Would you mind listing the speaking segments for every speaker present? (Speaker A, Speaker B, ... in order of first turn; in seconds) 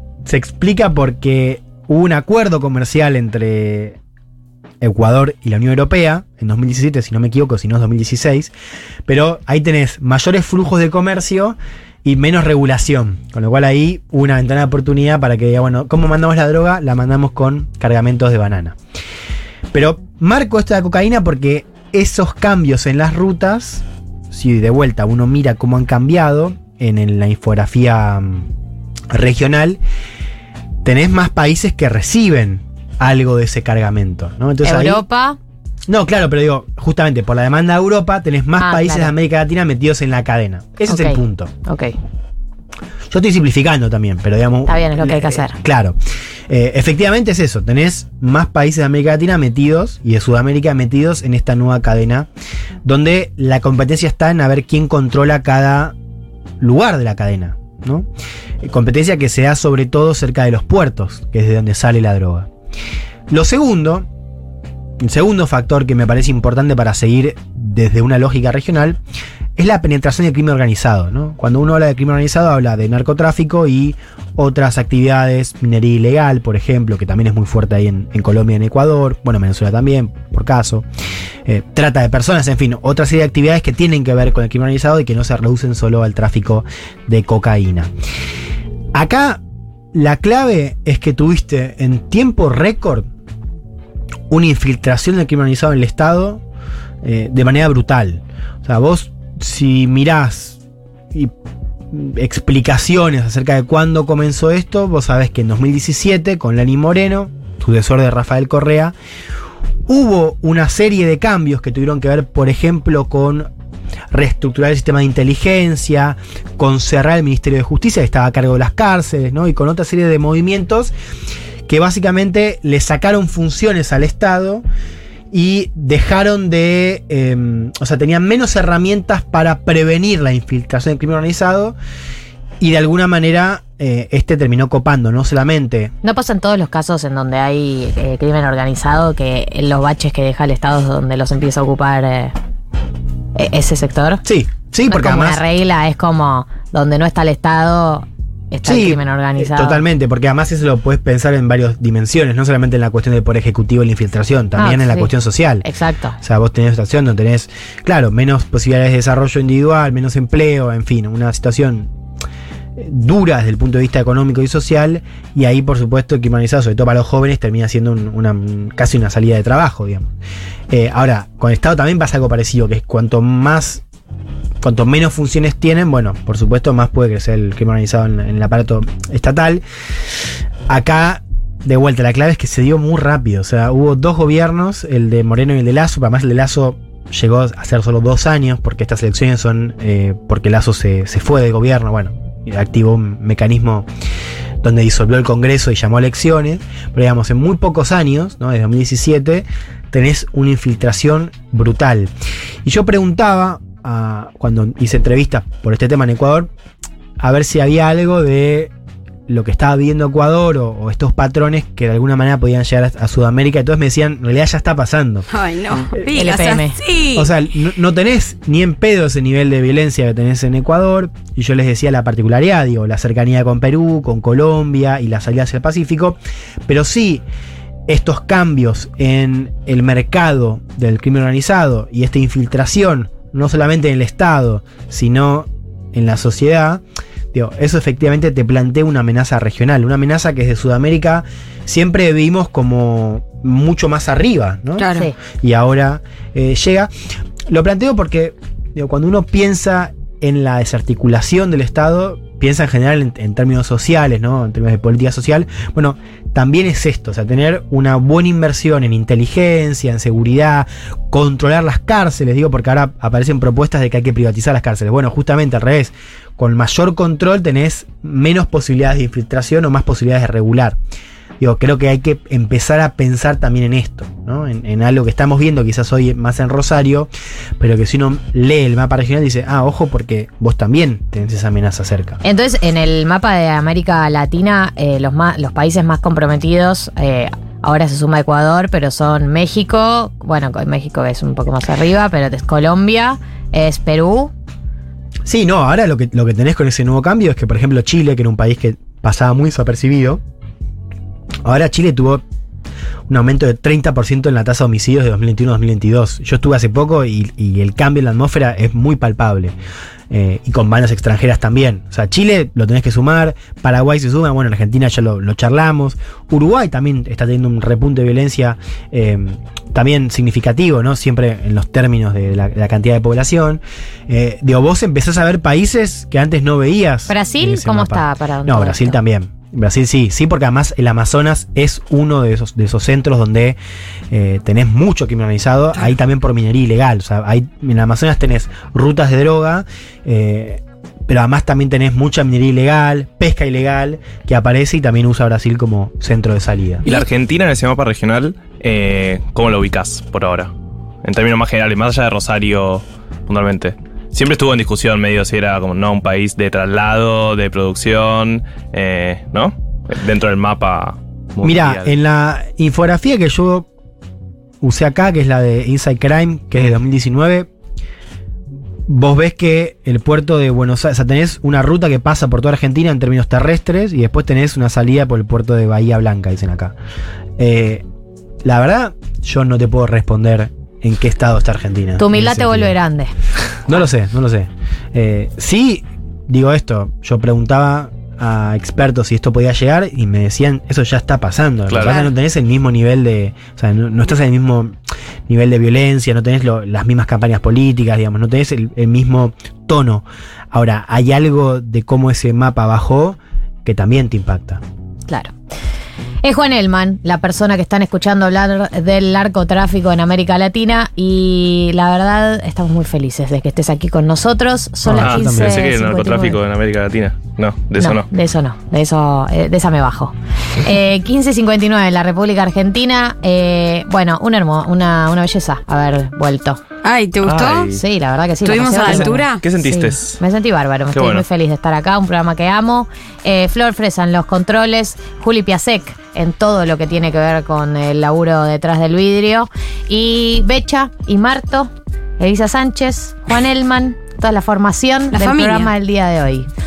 Speaker A: 0.2-4.0, 4.8-8.5, 9.1-18.8, 19.7-28.5, 29.1-29.8, 30.8-35.0, 35.9-41.5, 43.1-46.0, 46.5-52.3, 52.8-55.9, 56.6-58.1, 58.6-62.5, 63.3-64.0, 65.0-69.0, 69.5-80.8, 81.5-87.9, 88.9-89.4, 89.9-93.1, 94.3-96.4, 97.0-100.6, 101.9-108.9, 109.9-113.5, 114.1-120.9, 121.7-124.6, 125.3-131.8, 132.6-135.9, 144.2-145.4, 148.6-155.7, 156.2-161.9, 162.8-170.1, 170.7-173.8, 174.6-179.6, 180.7-193.9, 194.6-202.1, 202.6-206.5, 207.2-208.7, 209.3-215.2, 217.1-227.2, 227.9-236.8, 237.3-246.9, 247.5-270.8, 271.4-282.2, 295.2-300.2, 301.4-302.2, 303.1-309.5, 310.1-333.6, 334.1-346.8, 361.4-363.7, 364.6-367.5, 368.9-376.7, 377.4-377.8, 378.4-382.8, 383.6-394.7, 395.3-404.6, 414.8-415.6
Speaker B: 34.6-35.4, 38.6-39.1, 40.9-42.0, 44.7-45.6, 136.0-142.3, 143.3-144.2, 144.9-149.8, 154.6-155.1, 155.6-156.2, 216.1-216.8, 282.2-294.3, 327.1-329.0, 382.0-383.1, 406.2-416.4, 417.8-426.6, 427.7-446.5
Speaker C: 215.3-217.3, 244.8-245.1, 391.8-392.1, 426.8-427.7, 428.4-429.4, 445.1-445.7
Speaker D: 346.8-350.5, 351.0-361.9, 391.7-392.0, 415.0-418.1, 427.2-427.8, 428.8-430.2, 430.9-431.2